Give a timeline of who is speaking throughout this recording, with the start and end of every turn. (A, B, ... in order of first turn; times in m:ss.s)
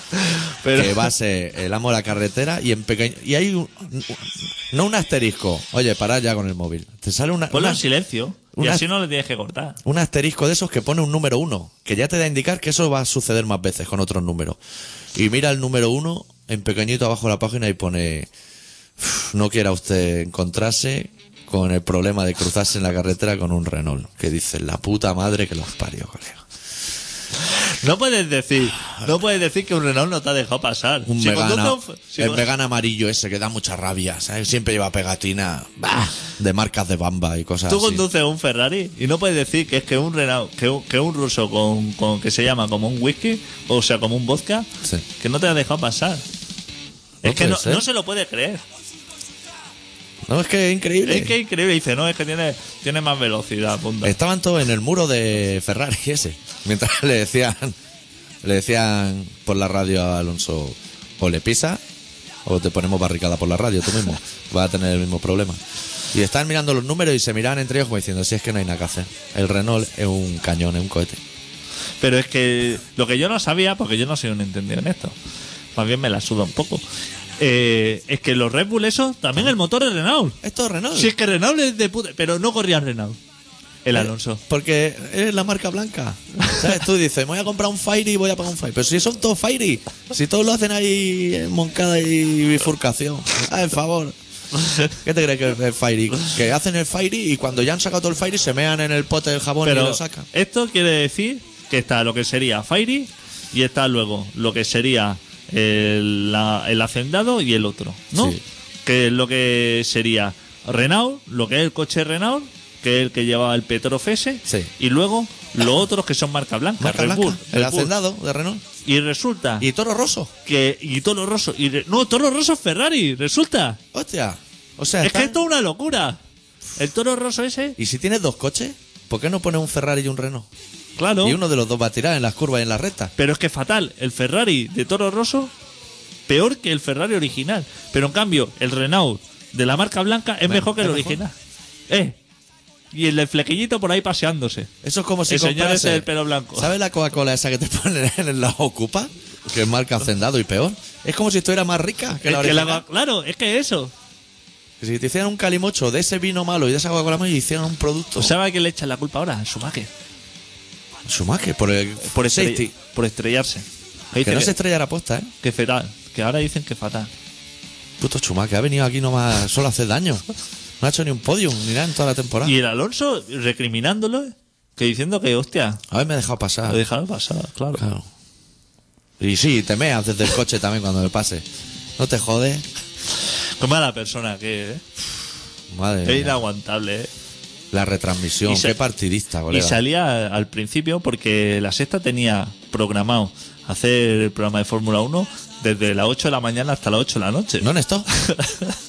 0:00.2-0:01.1 A
0:00.7-0:07.8 B
0:07.5-0:09.8 A
0:08.5-0:08.8 B
0:09.8-0:14.6 B
0:15.1-0:18.3 B
0:19.0-0:26.4 B
0:27.4-0:32.4 A
0:31.0-0:38.0 B
0:37.7-0:46.2 A
0:47.2-0:47.8 B
0:47.2-0:48.6 A
0:50.3-0:51.3 B
0:51.0-0:54.1 A
0:54.0-0:57.8 B
0:58.4-1:01.8 B
1:02.4-1:05.6 B
1:06.1-1:11.2 B
1:12.0-1:15.1 A
1:15.8-1:16.8 A
1:17.4-1:20.4 A
1:20.4-1:21.1 B
1:20.9-1:23.2 A
1:23.8-1:24.4 A
1:23.9-1:34.2 B
1:34.9-1:40.3 B
1:39.6-1:57.9 A
1:48.1-1:48.4 B
1:56.8-1:58.6 B
1:58.8-1:59.7 A
1:59.6-2:00.3 B
2:00.4-2:03.8 A
2:03.9-2:05.4 B
2:05.0-2:06.2 A
2:06.8-2:07.8 A
2:07.8-2:10.5 B
2:11.0-2:11.4 A
2:11.2-2:13.1 B
2:13.2-2:15.5 A
2:16.3-2:21.3 A
2:20.4-2:21.2 B
2:21.9-2:22.2 A
2:22.9-2:24.7 A
2:24.8-2:32.8 B
2:25.3-2:26.7 A
2:32.2-2:33.9 A
2:34.8-2:38.3 B
2:38.2-2:39.9 A
2:41.0-2:42.7 B
2:42.1-2:44.5 A
2:44.2-2:45.3 B
2:45.4-2:47.1 A
2:48.0-2:50.2 B
2:50.8-2:52.5 B
2:52.4-2:55.8 A
2:55.9-2:56.8 B
2:56.7-2:57.8 A
2:57.8-2:58.0 B
2:59.2-3:01.4 B
3:02.0-3:02.6 B
3:03.6-3:04.8 A
3:05.7-3:06.4 B
3:06.0-3:07.1 A
3:07.7-3:09.8 B
3:08.5-3:08.8 A
3:09.5-3:18.7 A
3:17.6-3:18.1 B